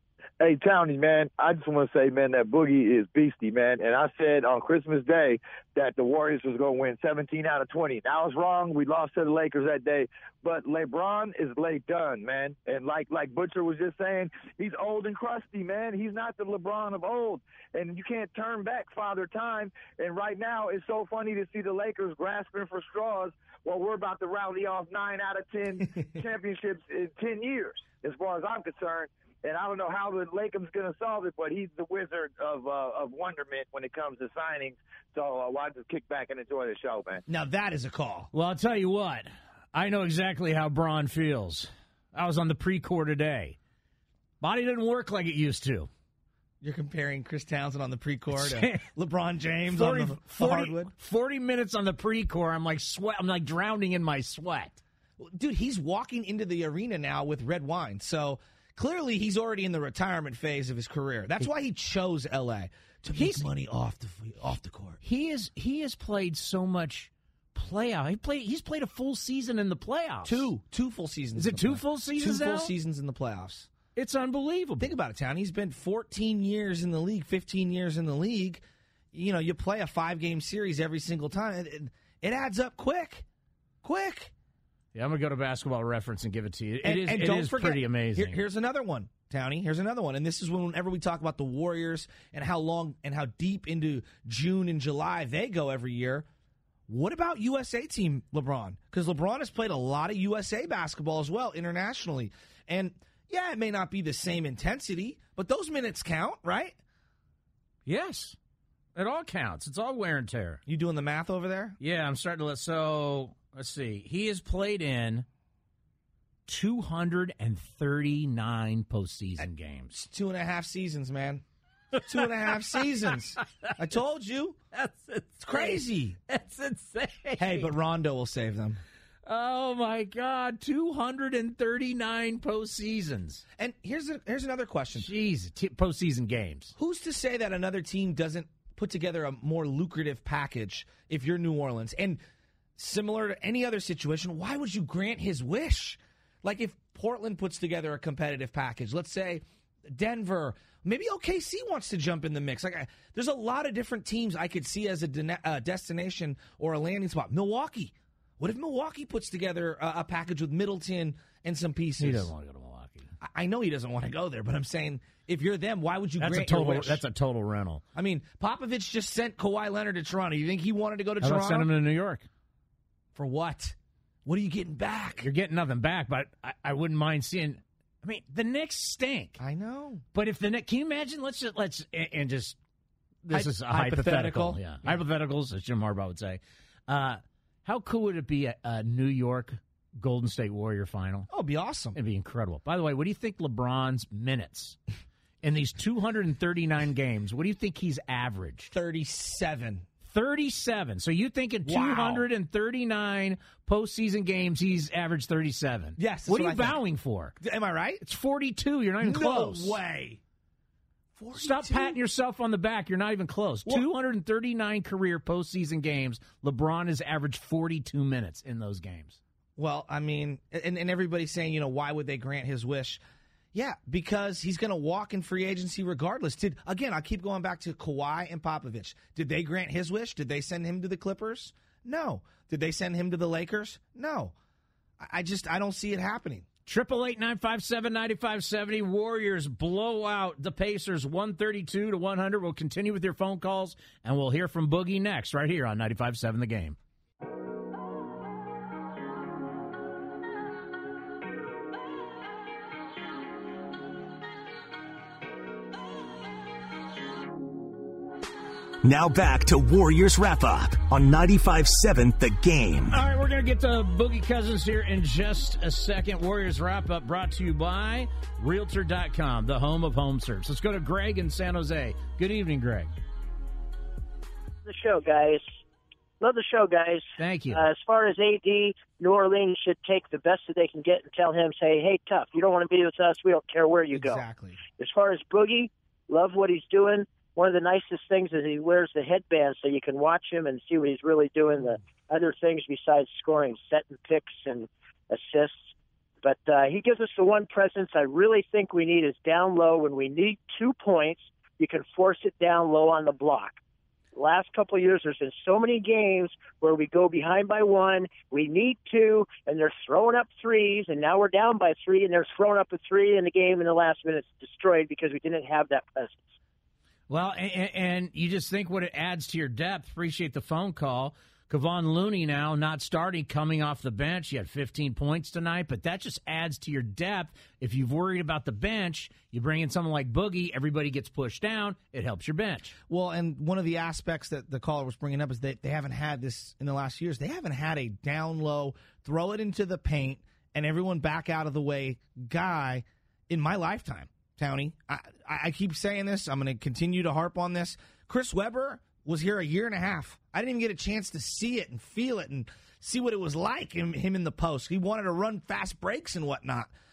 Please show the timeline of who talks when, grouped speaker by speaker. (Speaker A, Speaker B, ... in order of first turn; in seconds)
Speaker A: 0.4-37.2
Speaker B: 37.3-38.3, 46.6-50.9, 55.2-65.0, 70.2-73.7, 74.8-83.3, 83.8-84.3, 86.8-96.2, 96.9-106.8, 110.7-111.8, 119.4-121.4, 122.0-124.6, 125.4-126.2, 127.4-128.8, 133.6-135.1, 136.8-142.2, 142.8-162.3, 163.2-167.0, 167.9-171.7, 173.1-175.3, 179.4-180.0, 183.3-185.0, 191.3-192.0, 198.7-199.9, 201.6-202.2, 206.0-206.8, 207.4-208.0, 209.0-210.2, 211.1-212.0, 219.6-223.0, 223.5-234.3, 235.0-236.5, 283.9-284.6, 332.9-356.7
Speaker C: 38.3-43.6, 44.4-45.9, 48.3-48.9, 49.7-54.8, 63.1-63.4, 65.0-70.5, 71.4-72.7, 73.9-74.9, 84.9-88.4, 107.9-108.4, 108.9-110.6, 111.8-115.2, 116.5-120.0, 121.9-123.7, 124.7-127.7, 129.2-133.4, 134.9-136.7, 162.0-163.1, 166.2-167.8, 171.2-172.2, 175.2-179.4, 180.1-182.6, 183.2-191.3, 191.9-194.8, 195.4-198.7, 200.1-207.4, 208.0-209.8, 211.3-219.2, 236.7-246.8, 262.9-272.9, 277.2-277.6, 317.1-332.7
Speaker D: 258.8-263.0
Speaker E: 274.6-275.6, 276.2-284.2, 284.8-295.7, 296.2-303.6, 304.1-316.3